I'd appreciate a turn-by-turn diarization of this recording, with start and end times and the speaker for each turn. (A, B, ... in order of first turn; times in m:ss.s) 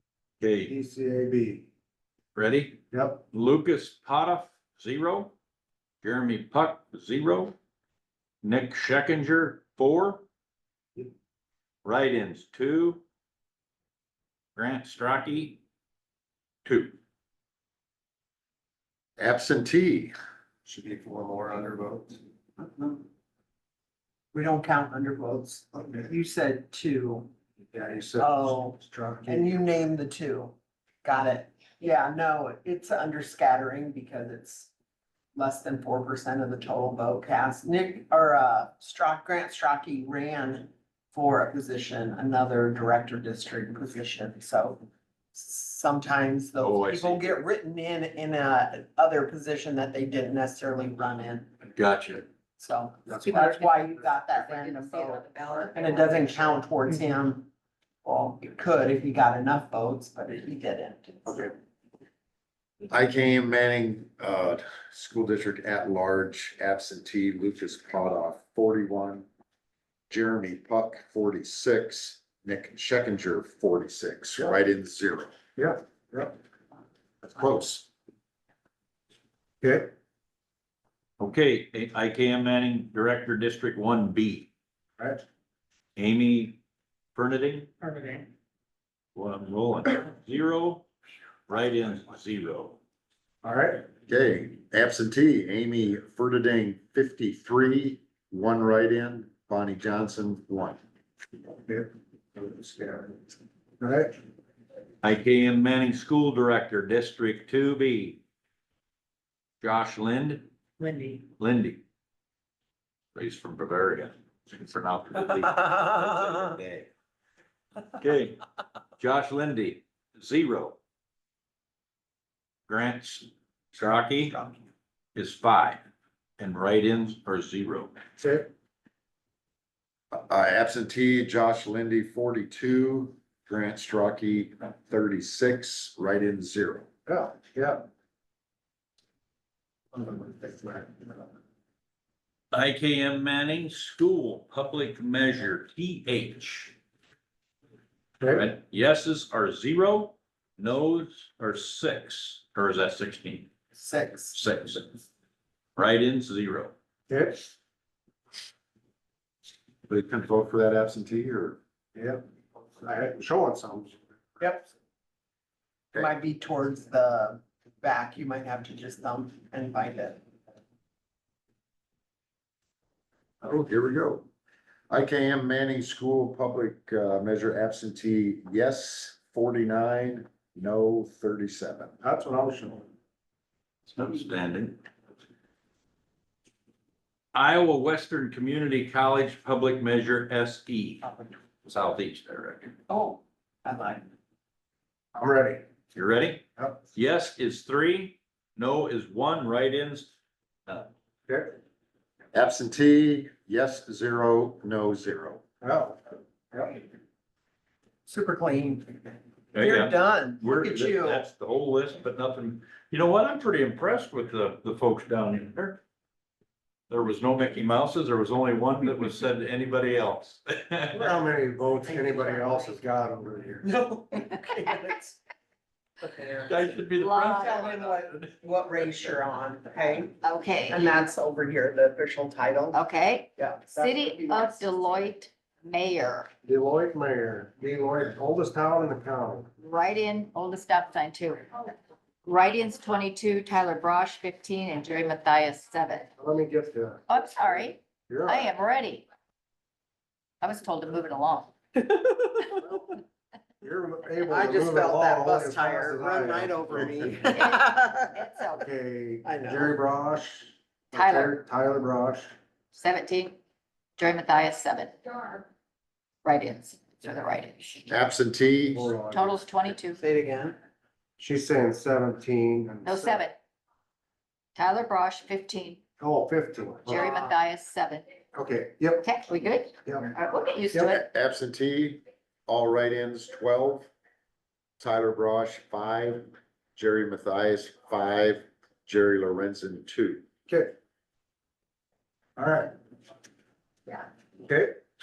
0:00.4-0:00.7 A
0:00.7-0:01.7 B
0:02.4-0:02.8 A
0:02.9-0:03.2 B
0:03.3-0:05.3 A
0:06.0-0:07.6 A
0:08.4-0:10.2 A
0:11.8-0:13.0 A
0:14.6-0:15.6 A
0:16.6-0:17.0 A
0:19.2-0:20.1 C
0:20.6-0:22.2 B
0:24.3-0:27.3 D
0:27.7-0:29.6 B
0:28.2-0:34.7 D
0:35.3-0:44.8 D
0:45.3-0:51.5 D
0:46.6-0:47.4 A
0:51.8-0:52.3 A
0:52.6-0:57.5 D
0:53.2-0:56.6 E
0:58.0-1:01.3 D
1:01.3-1:01.5 B
1:02.9-1:09.3 C
1:10.1-1:15.3 C
1:15.6-1:16.3 B
1:17.2-1:17.9 C
1:19.6-1:19.9 B
1:21.2-1:24.5 A
1:26.0-1:26.6 A
1:27.2-1:27.7 A
1:29.2-1:30.9 A
1:31.5-1:32.8 A
1:33.4-1:33.9 B
1:34.1-1:40.8 C
1:41.6-1:43.2 B
1:43.8-1:44.1 B
1:45.0-1:48.2 A
1:49.6-1:50.5 A
1:51.4-1:51.8 A
1:53.2-1:56.9 A
1:58.0-1:58.4 A
1:59.0-2:00.8 A
2:02.7-2:04.4 A
2:05.2-2:05.8 A
2:06.4-2:08.0 A
2:08.2-2:08.5 B
2:10.1-2:16.9 C
2:17.1-2:17.9 B
2:19.9-2:21.1 B
2:22.5-2:26.8 A
2:28.2-2:28.5 B
2:28.3-2:33.5 A
2:33.8-2:34.4 D
2:34.3-2:35.0 A
2:35.8-2:36.7 A
2:37.1-2:37.5 B
2:39.9-2:41.6 C
2:42.0-2:42.2 B
2:42.8-2:44.0 B
2:44.4-2:44.7 D
2:45.9-2:50.2 D
2:53.4-2:54.3 C
2:54.9-3:02.0 C
3:02.0-3:02.9 B
3:03.9-3:04.8 A
3:07.3-3:11.1 A
3:11.6-3:12.7 A
3:12.9-3:14.1 D
3:15.1-3:15.6 B
3:15.9-3:20.1 A
3:21.3-3:21.6 B
3:22.3-3:25.4 C
3:25.6-3:26.0 B
3:26.5-3:26.8 B
3:28.1-3:31.3 D
3:29.5-3:35.8 A
3:36.9-3:41.1 A
3:40.9-3:43.7 B
3:41.8-3:42.8 D
3:43.6-3:45.2 D
3:46.0-3:46.5 D
3:46.4-3:48.3 A
3:47.0-3:47.6 E
3:47.4-3:52.8 D
3:50.2-3:51.0 E
3:52.7-3:56.3 E
3:53.4-3:55.1 D
3:56.4-3:59.5 B
3:59.6-4:01.7 E
4:02.2-4:06.1 E
4:06.2-4:07.2 B
4:07.1-4:09.0 E
4:08.1-4:08.5 B
4:10.4-4:11.5 E
4:11.8-4:12.4 D
4:13.6-4:17.3 B
4:14.3-4:18.2 D
4:17.3-4:18.7 E
4:18.5-4:22.3 B
4:19.2-4:19.8 D
4:20.9-4:21.3 E
4:22.7-4:23.4 E
4:24.0-4:25.5 E
4:26.2-4:27.9 E
4:27.9-4:28.9 C
4:28.7-4:29.4 B
4:29.1-4:30.0 E
4:30.0-4:30.6 D
4:31.2-4:33.2 B
4:32.8-4:33.4 E
4:34.6-4:35.8 E
4:36.0-4:37.1 B
4:36.9-4:38.1 E
4:36.9-4:37.4 D
4:38.3-4:39.1 B
4:39.0-4:41.0 E
4:39.8-4:40.1 B
4:40.7-4:41.0 B
4:40.8-4:43.9 C
4:44.8-4:50.2 C
4:50.5-4:50.7 B
4:52.4-4:52.7 B
4:54.4-4:54.8 B